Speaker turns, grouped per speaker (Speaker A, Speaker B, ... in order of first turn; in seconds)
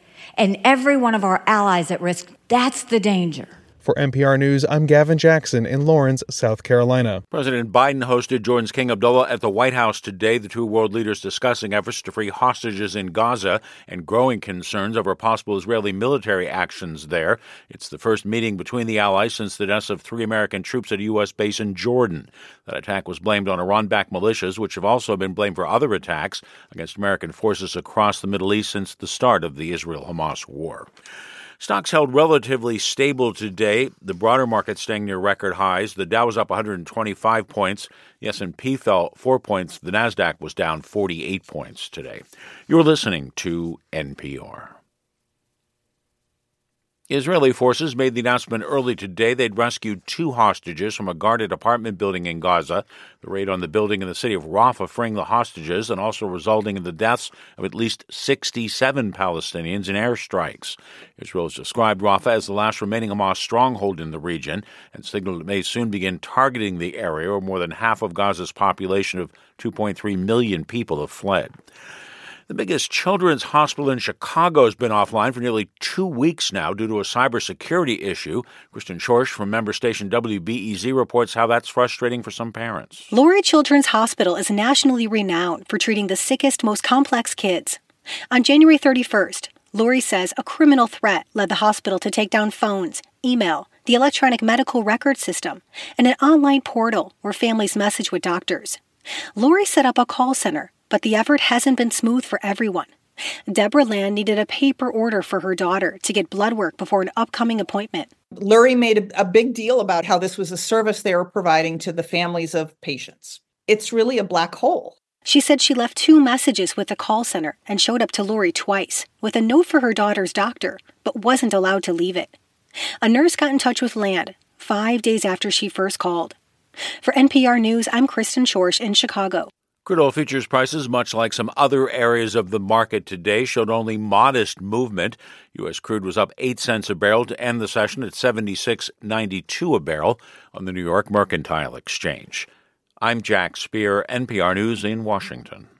Speaker A: 0.4-3.5
Speaker B: 3.8-7.2
Speaker C: 7.3-30.9, 31.6-44.7, 47.1-71.5, 72.5-83.1, 129.8-142.5, 143.0-145.7
Speaker D: 83.1-87.8, 88.3-98.8, 99.3-102.9, 103.5-108.1, 115.2-122.3, 123.0-126.3, 127.0-129.5
Speaker E: 108.6-108.8, 109.8-113.2